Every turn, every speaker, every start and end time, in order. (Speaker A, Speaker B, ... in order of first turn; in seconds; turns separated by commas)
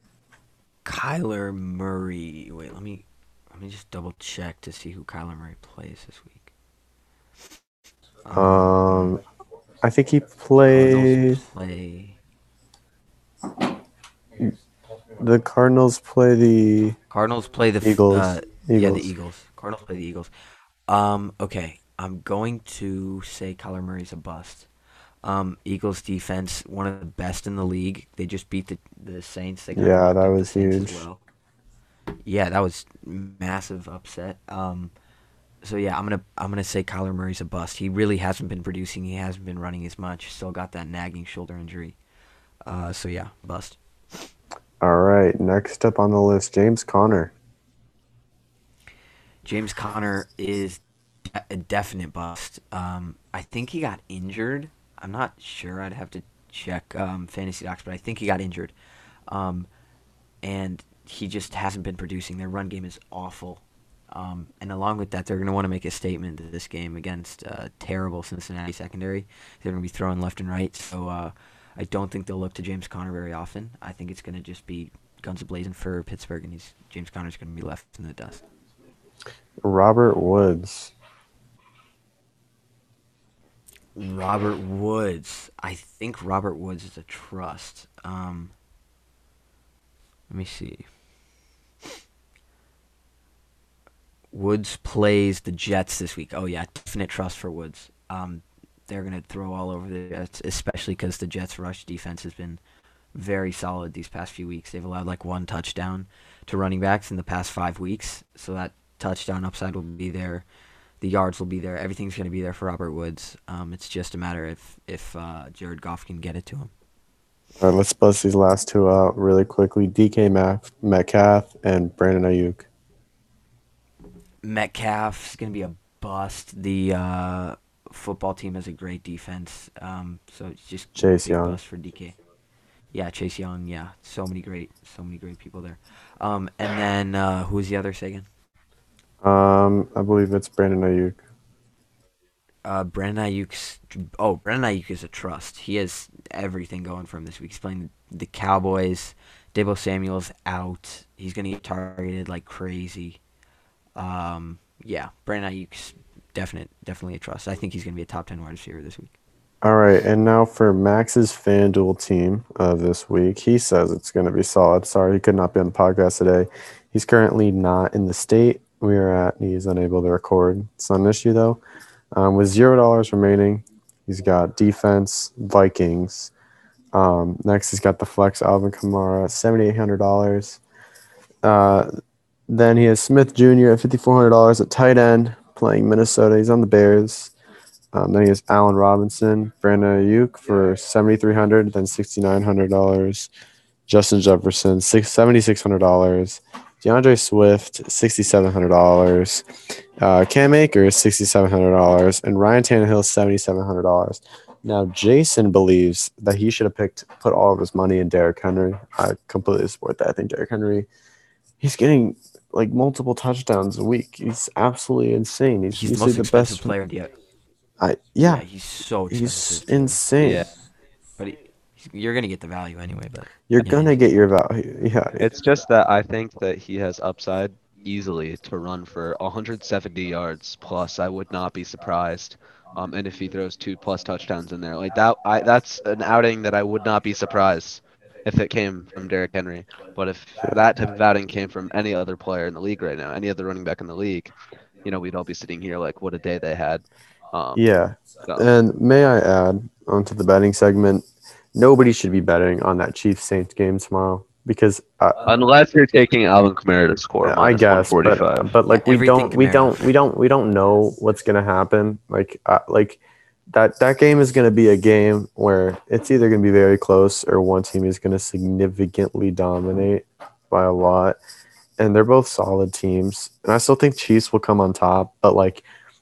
Speaker A: 0.8-6.5, Speaker A: 8.2-9.2, Speaker B: 8.3-9.2, Speaker B: 9.8-11.4, Speaker A: 10.7-12.2, Speaker B: 15.2-17.0, Speaker A: 17.1-20.3, Speaker B: 17.8-19.1, Speaker A: 20.9-24.7, Speaker A: 25.2-31.2, Speaker B: 29.7-31.0, Speaker A: 32.2-34.9, Speaker A: 35.6-42.0, Speaker A: 42.6-43.8, Speaker B: 44.8-47.3, Speaker A: 49.4-58.7, Speaker A: 59.3-59.7, Speaker A: 60.4-78.4, Speaker B: 79.6-80.9, Speaker A: 83.9-88.5, Speaker A: 90.3-90.9, Speaker A: 94.3-102.6, Speaker A: 103.1-110.5, Speaker A: 111.0-116.7, Speaker B: 117.6-122.7, Speaker A: 124.4-132.2, Speaker B: 130.9-131.6, Speaker A: 132.9-138.3, Speaker B: 139.2-141.2, Speaker A: 142.6-153.2, Speaker A: 153.9-159.1, Speaker B: 159.6-171.6, Speaker B: 172.1-176.3, Speaker B: 176.9-180.6, Speaker B: 181.4-181.9, Speaker B: 182.5-187.3, Speaker B: 187.9-193.3, Speaker B: 193.9-199.4, Speaker B: 200.0-210.9, Speaker B: 211.6-216.7, Speaker A: 215.7-217.1, Speaker B: 217.8-218.4, Speaker A: 218.2-220.0, Speaker B: 219.1-220.4, Speaker C: 220.2-220.5, Speaker A: 221.2-223.9, Speaker B: 223.5-225.2, Speaker C: 225.2-244.3, Speaker C: 244.8-247.6, Speaker B: 247.5-255.2, Speaker C: 255.2-258.6, Speaker B: 257.2-263.0, Speaker A: 258.7-259.8, Speaker B: 263.5-271.2, Speaker B: 271.8-275.6